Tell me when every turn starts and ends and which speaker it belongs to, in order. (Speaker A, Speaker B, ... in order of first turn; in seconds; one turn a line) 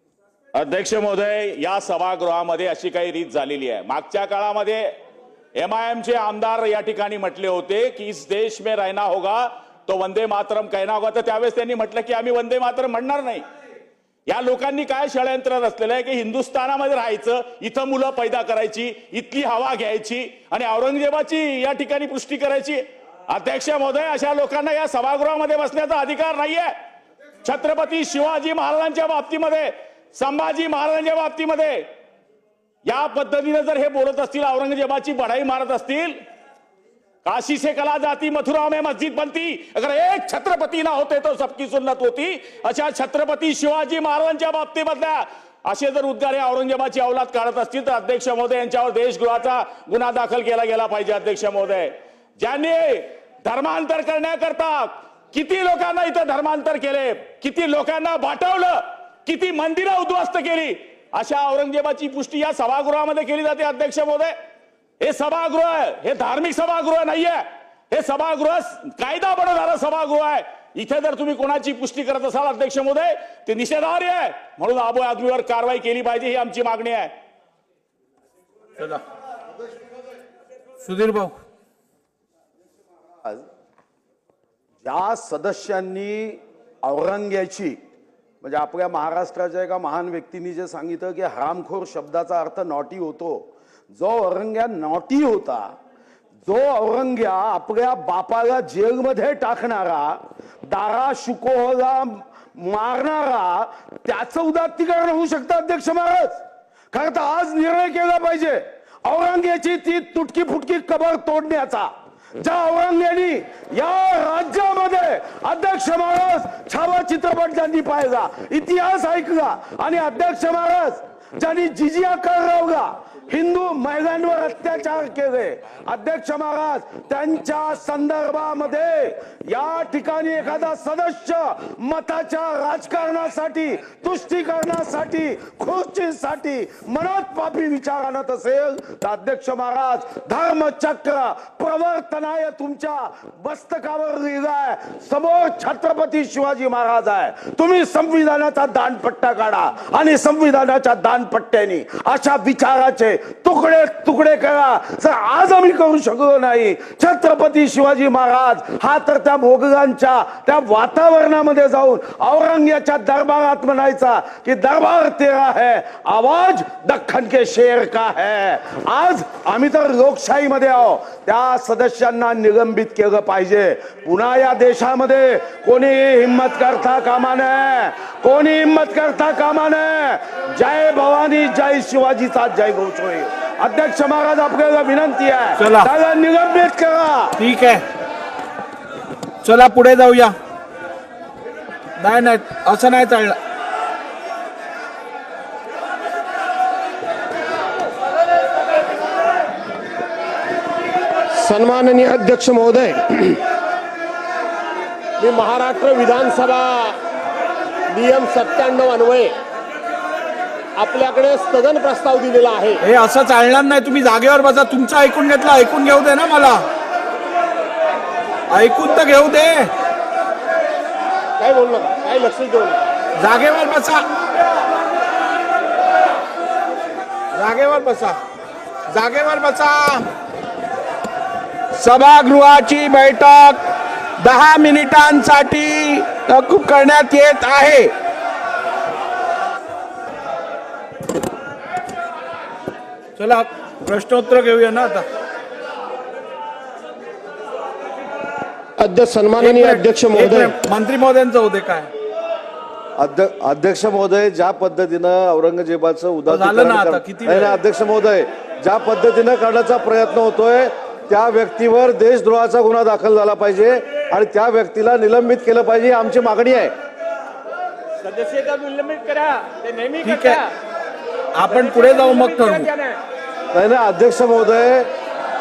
Speaker A: 0.6-4.9
Speaker A: 5.6-13.4
Speaker A: 14.3-26.7
Speaker A: 27.4-31.9
Speaker A: 32.9-36.2
Speaker A: 37.2-64.3
Speaker A: 65.0-77.1
Speaker B: 80.8-81.4
Speaker C: 84.8-87.8
Speaker C: 88.4-95.7
Speaker C: 96.5-106.4
Speaker C: 106.9-187.4
Speaker B: 185.6-185.9
Speaker B: 187.4-187.8
Speaker B: 189.4-190.4
Speaker B: 192.0-193.4
Speaker D: 201.3-203.5
Speaker D: 205.2-207.0
Speaker D: 207.9-209.3
Speaker D: 210.8-212.8
Speaker B: 212.8-216.7
Speaker B: 218.5-219.7
Speaker D: 221.4-222.9
Speaker B: 223.2-224.0
Speaker B: 227.3-228.2
Speaker B: 228.9-230.1
Speaker B: 231.8-233.6
Speaker B: 234.2-237.9
Speaker B: 243.2-245.1
Speaker D: 248.8-250.6
Speaker B: 249.4-251.9
Speaker E: 253.0-266.8
Speaker B: 256.3-257.6
Speaker D: 268.0-270.5
Speaker B: 270.0-270.4
Speaker B: 271.3-272.7
Speaker D: 271.4-273.0
Speaker E: 273.5-274.9